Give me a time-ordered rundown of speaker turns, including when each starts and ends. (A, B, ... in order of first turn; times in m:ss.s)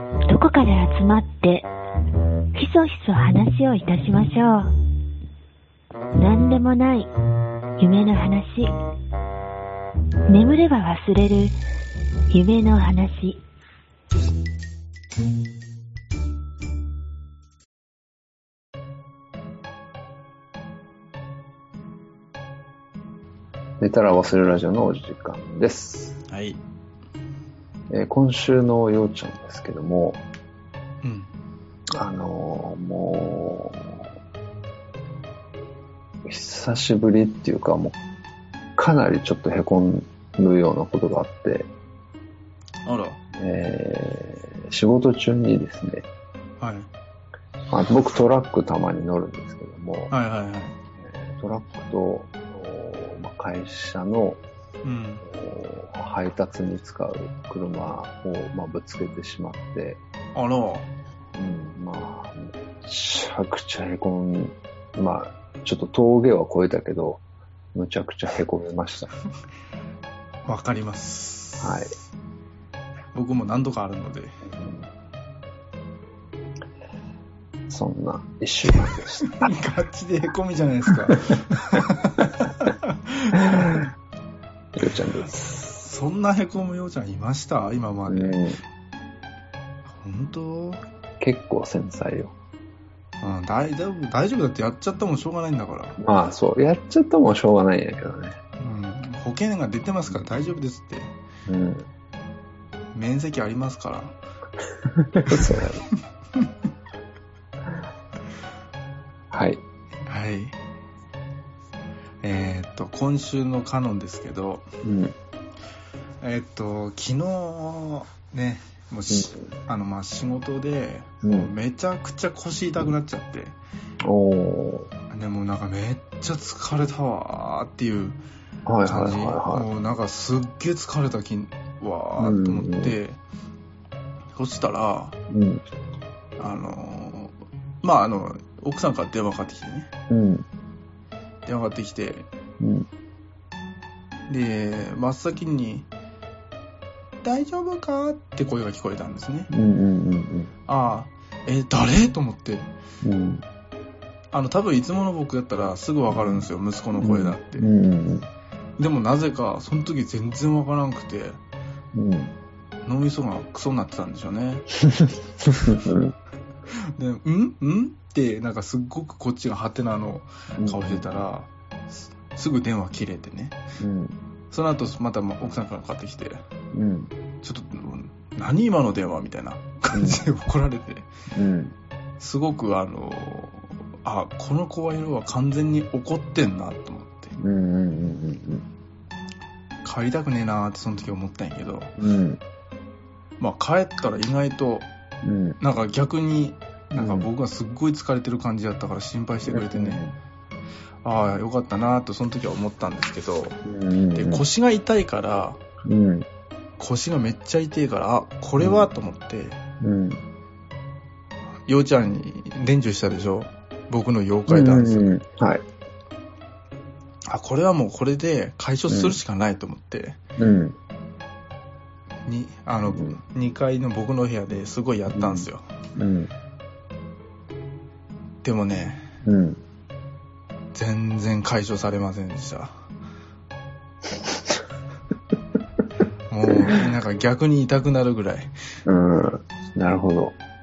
0:00.3-0:01.7 A
0:02.5-0:04.7 A
0:06.2-0:07.1 A
0:07.8-0:08.7 A
0:10.3-0:11.6 A
0:12.3-0:13.4 A
0:23.8-0:26.2 B
0:26.3-0:26.6 C
0:27.9-0:30.2 B
0:31.0-0:31.3 C
0:31.9-0:34.0 B
0:36.2-0:38.0 B
0:38.8-0:41.7 B
0:42.8-0:43.2 C
0:43.3-0:46.0 B
0:46.6-0:46.9 C
0:47.7-0:50.1 B
0:50.1-0:50.8 C
0:51.0-0:54.4 B
0:54.8-0:55.2 C
0:55.2-1:00.0 B
1:00.3-1:00.9 C
1:01.3-1:07.2 B
1:07.7-1:09.1 B
1:10.4-1:11.8 C
1:11.6-1:11.9 B
1:13.1-1:14.3 C
1:14.4-1:14.9 B
1:17.7-1:19.5 B
1:18.9-1:23.6 C
1:24.7-1:25.4 B
1:25.3-1:28.4 C
1:28.1-1:28.6 B
1:29.8-1:30.8 C
1:31.2-1:32.3 B
1:33.2-1:36.0 C
1:36.0-1:38.3 B
1:38.6-1:41.1 C
1:41.5-1:41.9 B
1:42.9-1:44.2 C
1:44.9-1:45.8 B
1:45.3-1:45.6 C
1:49.3-1:49.6 B
1:50.0-1:50.5 C
1:52.2-1:54.7 C
1:54.8-1:55.1 B
1:56.2-2:03.6 C
1:59.1-1:59.4 B
2:01.2-2:01.5 B
2:04.0-2:04.9 B
2:05.1-2:08.2 C
2:08.6-2:09.7 B
2:08.8-2:13.2 C
2:12.2-2:12.9 B
2:14.3-2:15.2 C
2:15.3-2:15.6 B
2:16.4-2:19.9 C
2:20.1-2:20.4 B
2:21.4-2:22.3 C
2:22.6-2:22.9 B
2:24.3-2:25.9 C
2:27.2-2:29.5 C
2:29.5-2:30.5 B
2:30.7-2:32.7 C
2:33.0-2:33.4 B
2:34.3-2:37.7 C
2:36.1-2:36.4 B
2:37.0-2:38.3 B
2:38.8-2:41.4 C
2:41.9-2:42.3 B
2:42.8-2:44.6 C
2:44.8-2:46.1 B
2:46.7-2:53.6 C
2:50.6-2:51.2 B
2:53.8-2:54.2 B
2:54.5-2:56.4 C
2:56.7-2:57.1 B
2:57.4-3:01.0 C
2:59.9-3:00.2 B
3:01.3-3:01.8 B
3:02.2-3:07.3 C
3:07.4-3:08.6 B
3:09.8-3:11.9 C
3:12.0-3:12.4 B
3:13.4-3:14.9 C
3:15.2-3:15.6 B
3:15.6-3:20.0 C
3:17.0-3:17.3 B
3:19.5-3:20.2 B
3:21.0-3:23.6 C
3:23.6-3:24.4 B
3:24.1-3:25.6 C
3:25.8-3:26.3 B
3:26.8-3:29.6 C
3:28.6-3:28.9 B
3:29.8-3:30.2 B
3:31.6-3:35.1 C
3:34.5-3:35.6 B
3:37.3-3:40.2 C
3:38.9-3:39.2 B
3:40.4-3:40.8 B
3:42.2-3:45.6 C
3:42.9-3:43.2 B
3:45.1-3:46.3 B
3:48.4-3:49.0 C
3:49.2-3:49.6 B
3:50.7-3:52.7 C
3:56.3-3:58.5 C
3:56.5-3:56.8 B
3:58.8-4:00.3 B